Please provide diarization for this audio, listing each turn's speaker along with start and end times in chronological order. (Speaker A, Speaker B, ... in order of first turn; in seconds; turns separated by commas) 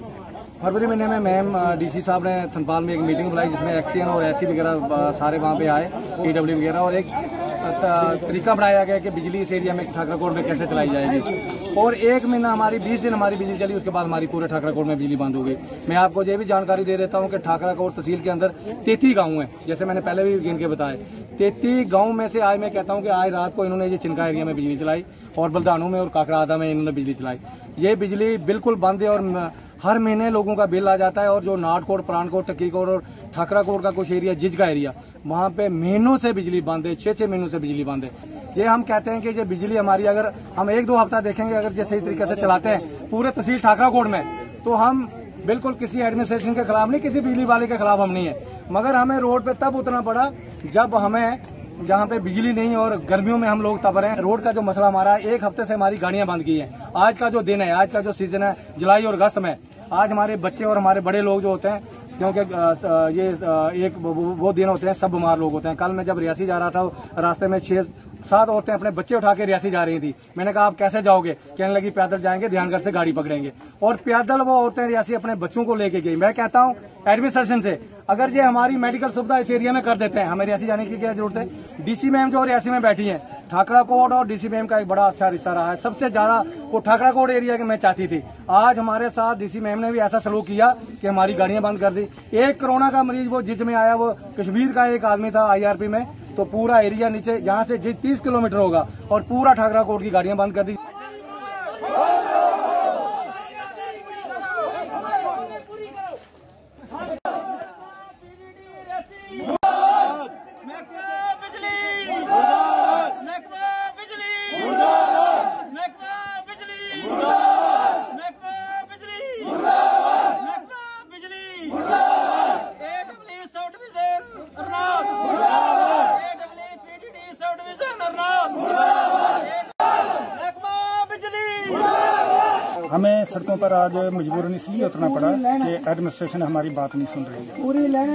Speaker A: 0.6-100.8, Speaker B: 111.1-112.2, Speaker C: 113.3-114.3, Speaker B: 116.1-116.3, Speaker C: 116.6-117.0, Speaker C: 119.1-119.4, Speaker C: 120.6-121.6, Speaker C: 122.6-128.8, Speaker C: 131.0-131.7, Speaker B: 132.9-137.8